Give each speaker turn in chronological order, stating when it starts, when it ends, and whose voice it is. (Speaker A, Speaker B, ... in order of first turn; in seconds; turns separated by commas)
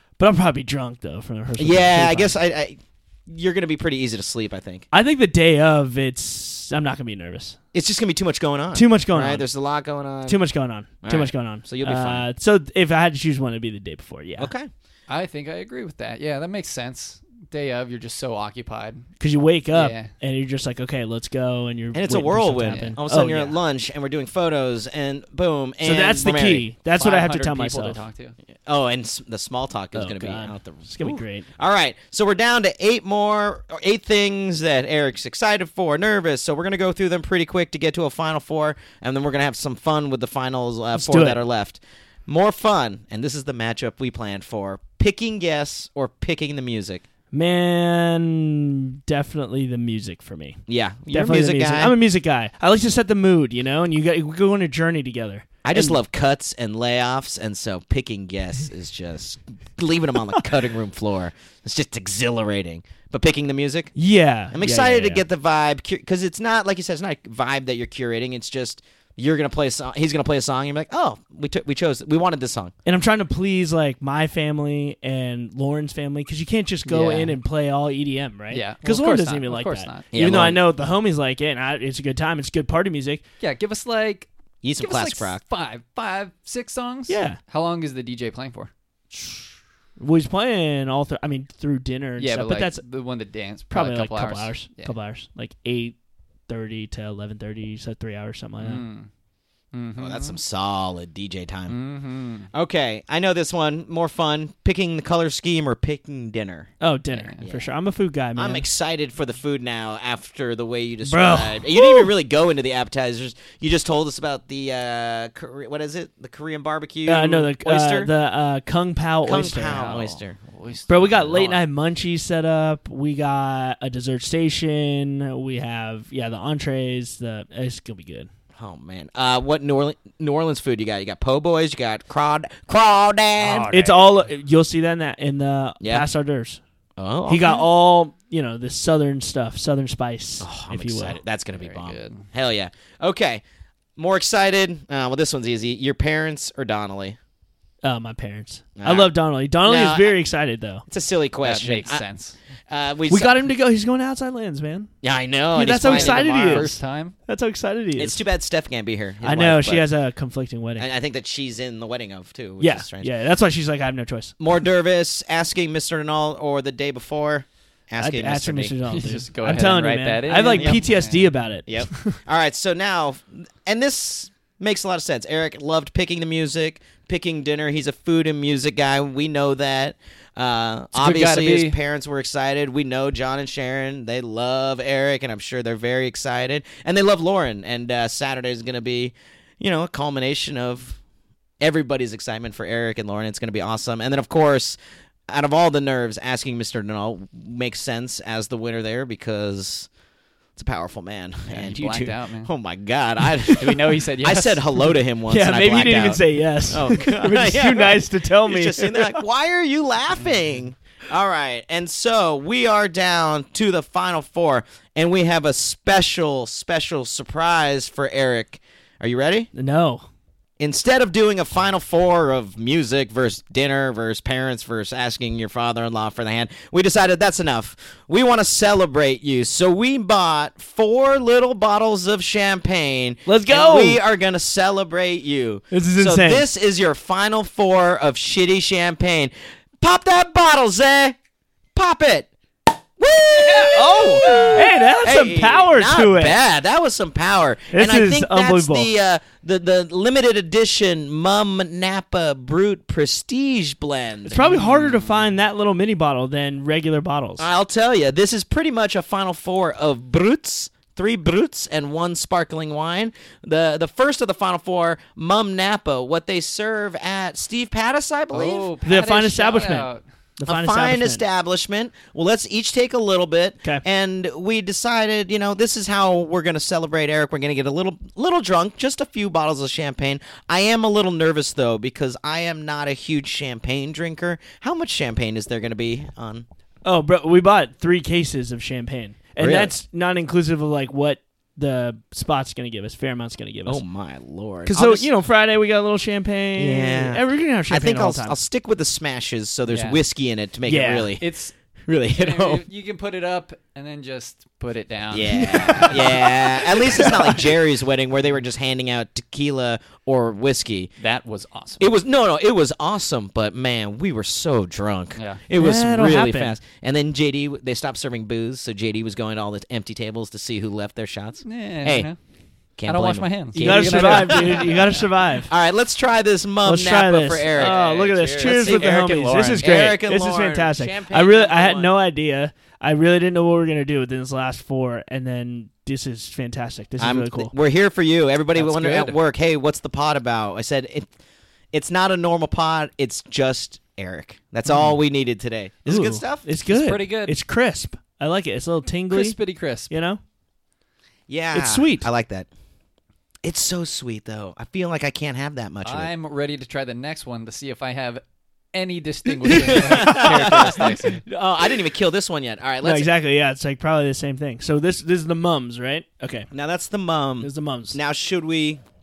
Speaker A: 0.2-2.4, Speaker B: 1.6-4.9, Speaker A: 4.9-7.6, Speaker B: 7.7-10.4, Speaker A: 8.7-9.5, Speaker A: 10.3-14.5, Speaker B: 11.0-12.2, Speaker B: 14.4-14.7, Speaker C: 15.1-19.1, Speaker A: 19.2-23.6, Speaker C: 19.7-20.1, Speaker B: 21.9-26.7, Speaker C: 22.7-23.0, Speaker A: 25.8-28.0, Speaker C: 26.9-28.4, Speaker B: 28.7-47.0, Speaker A: 29.9-31.5, Speaker A: 41.0-41.4, Speaker A: 47.3-50.6, Speaker B: 50.7-52.0, Speaker A: 51.1-56.0, Speaker B: 55.6-63.9, Speaker A: 64.0-65.2, Speaker B: 64.5-72.7, Speaker A: 72.8-83.2, Speaker C: 76.9-77.4, Speaker C: 78.5-80.0, Speaker B: 80.1-80.6, Speaker C: 83.4-88.7, Speaker B: 84.6-85.4, Speaker A: 87.1-87.4, Speaker A: 90.0-92.8, Speaker C: 92.2-94.9, Speaker A: 93.7-96.0, Speaker A: 96.5-98.8, Speaker C: 98.6-99.1, Speaker C: 99.7-100.4, Speaker B: 100.0-101.8, Speaker C: 101.7-102.5, Speaker B: 102.5-106.7, Speaker A: 106.8-108.7, Speaker B: 107.4-107.7, Speaker B: 108.4-118.1, Speaker A: 111.0-112.1, Speaker A: 117.1-119.9, Speaker B: 119.2-120.4, Speaker C: 119.5-121.6, Speaker A: 120.9-128.3, Speaker B: 128.6-133.7, Speaker C: 133.4-134.2, Speaker A: 133.7-136.6, Speaker B: 135.8-136.1, Speaker B: 137.0-137.7, Speaker A: 137.3-141.2, Speaker B: 140.4-143.4, Speaker C: 141.6-142.3, Speaker B: 144.0-147.2, Speaker A: 147.8-150.8, Speaker B: 148.8-149.1, Speaker B: 149.6-150.2, Speaker B: 150.9-152.1, Speaker C: 151.4-152.4, Speaker B: 152.7-153.4, Speaker A: 153.1-154.9, Speaker B: 155.0-156.7, Speaker A: 155.5-158.2, Speaker C: 155.8-157.2, Speaker B: 158.0-159.9, Speaker A: 159.2-160.9, Speaker B: 160.8-163.1, Speaker A: 162.6-164.3, Speaker B: 164.4-168.8, Speaker A: 168.0-172.2, Speaker C: 168.9-171.3, Speaker B: 170.5-170.8, Speaker B: 171.7-191.0, Speaker C: 180.9-181.8, Speaker B: 191.6-199.9, Speaker B: 200.6-219.5, Speaker C: 201.5-202.5, Speaker C: 203.5-204.9, Speaker A: 205.3-209.2, Speaker A: 219.5-220.0, Speaker B: 220.6-241.2, Speaker A: 233.3-234.0, Speaker A: 235.7-236.5, Speaker B: 241.8-242.3, Speaker B: 243.0-254.5, Speaker A: 243.7-246.4, Speaker A: 247.7-248.9, Speaker A: 254.2-257.5, Speaker C: 254.4-255.2, Speaker B: 257.4-268.7, Speaker C: 268.3-270.0, Speaker A: 268.9-271.2, Speaker B: 270.5-286.5, Speaker A: 286.9-293.8, Speaker B: 289.4-289.7, Speaker B: 293.7-295.1, Speaker A: 294.6-298.4, Speaker B: 296.6-301.3, Speaker C: 299.7-300.0, Speaker A: 300.7-301.1, Speaker C: 301.2-301.5, Speaker B: 301.9-302.6, Speaker C: 302.1-307.4, Speaker B: 305.1-310.9, Speaker C: 311.0-311.9, Speaker B: 311.8-322.1, Speaker A: 315.5-316.6, Speaker C: 321.4-322.2, Speaker B: 322.8-324.9, Speaker C: 322.9-325.0, Speaker A: 323.6-325.5, Speaker B: 325.5-329.1, Speaker A: 326.6-337.5, Speaker C: 327.5-329.6, Speaker B: 329.6-331.9, Speaker B: 337.0-341.1, Speaker C: 338.6-339.2, Speaker B: 341.7-346.5, Speaker C: 344.7-344.9, Speaker A: 345.9-349.4, Speaker C: 346.7-347.4, Speaker C: 349.1-349.9, Speaker A: 349.9-350.2, Speaker B: 351.3-352.5, Speaker A: 351.5-352.1, Speaker B: 353.4-356.1, Speaker C: 355.9-358.2, Speaker C: 358.7-361.2, Speaker A: 359.4-360.9, Speaker B: 359.5-363.1, Speaker A: 362.8-366.5, Speaker B: 366.5-368.8, Speaker A: 367.4-368.0